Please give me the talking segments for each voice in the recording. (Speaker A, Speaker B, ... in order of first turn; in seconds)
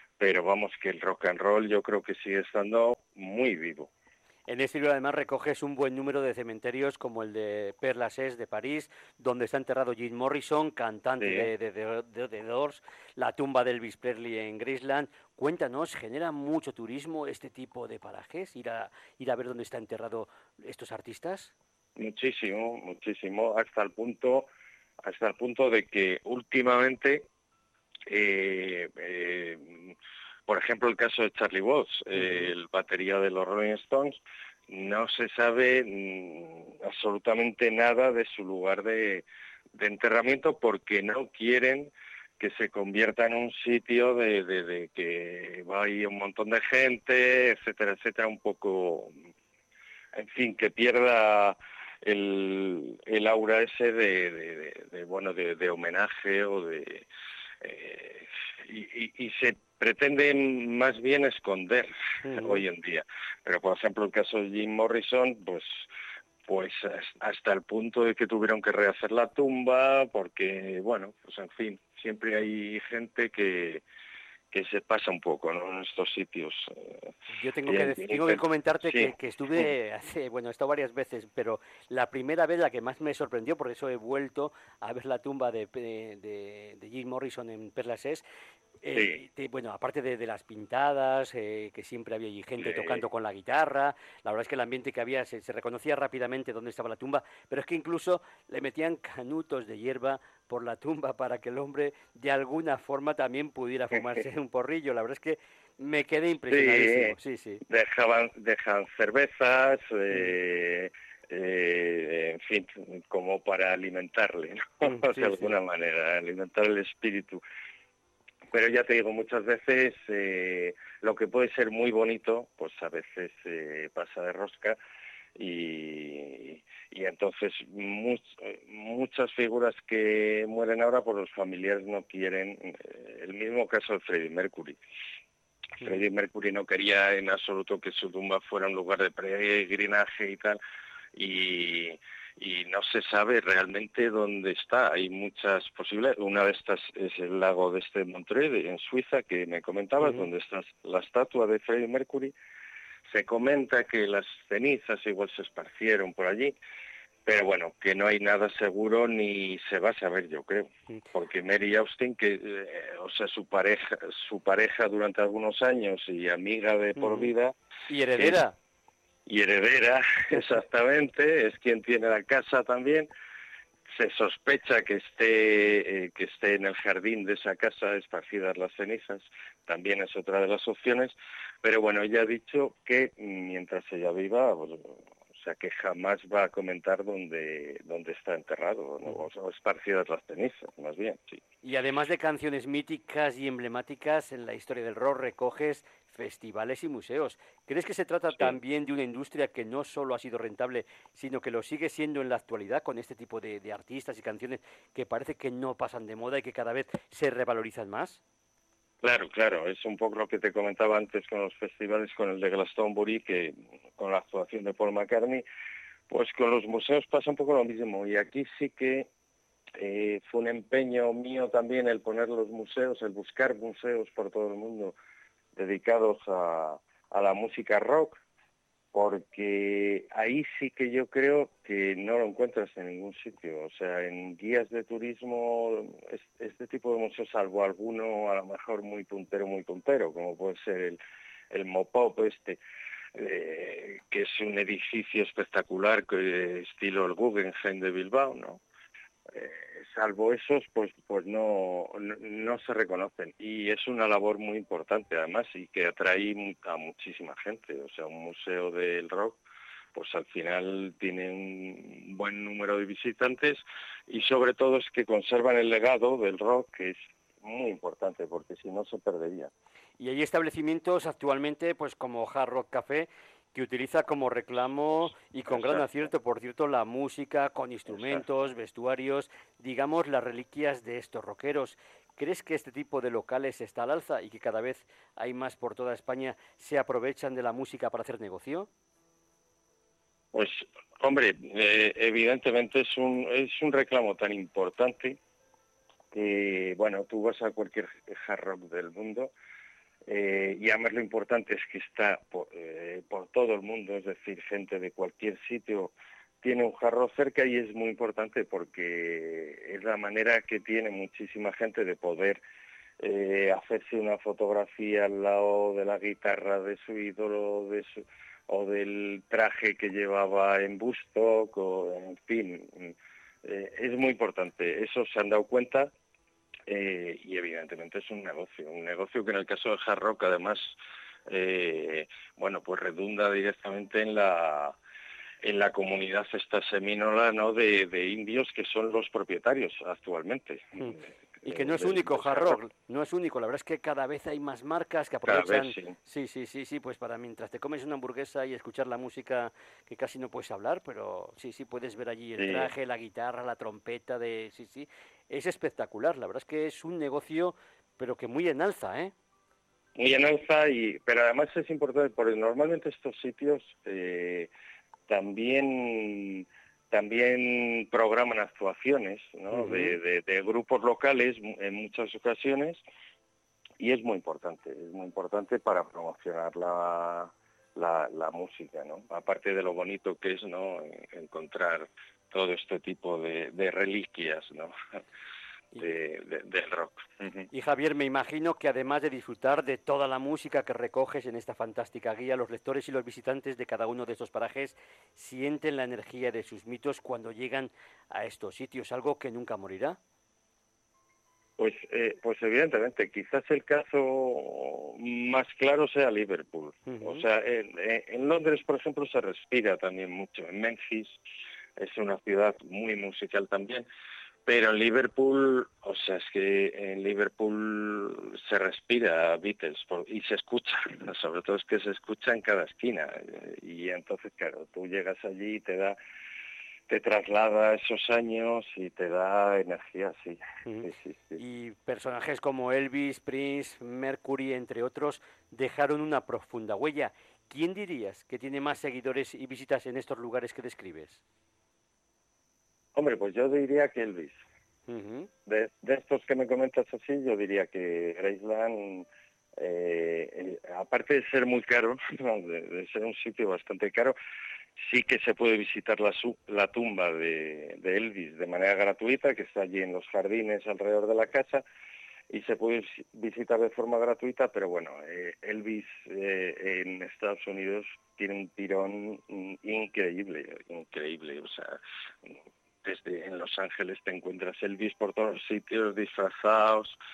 Speaker A: 0.2-3.9, 11.2-11.5, 22.0-24.5, 25.0-27.3, 28.1-29.9, 30.5-49.1, 50.1-57.1, 57.6-65.9, 66.5-73.8, 74.5-77.1, 77.7-79.7, 88.9-89.2, 92.6-93.0, 106.5-107.2, 107.7-117.4, 118.5-124.8, 125.4-134.8, 135.8-140.6, 141.2-152.3, 153.1-156.6, 157.3-167.6, 169.3-173.1, 173.9-191.4, 209.0-215.4, 216.1-219.1, 219.8-224.9, 225.6-228.2, 228.9-241.0, 241.5-242.6, 243.2-248.6, 249.3-259.4, 259.9-269.5, 275.5-275.9, 277.9-278.2, 290.3-295.2, 296.1-299.3, 300.1-312.4, 313.0-325.9, 326.7-330.8, 331.3-334.8, 335.4-342.6, 345.3-345.9, 352.4-352.7, 360.0-364.5, 365.1-372.8, 373.8-384.8, 385.8-387.5, 401.6-411.2, 411.8-413.9, 414.5-426.0, 426.9-431.4, 442.9-444.4, 445.5-454.2, 454.8-461.6, 462.3-477.0
Speaker B: 4.5-21.5, 62.2-62.6, 77.3-88.2, 88.8-107.6, 114.8-115.5, 167.0-167.3, 167.9-168.6, 191.6-208.2, 270.0-288.7, 340.8-359.1, 369.5-370.0, 387.5-400.0, 406.9-407.2, 430.7-441.2, 444.9-445.3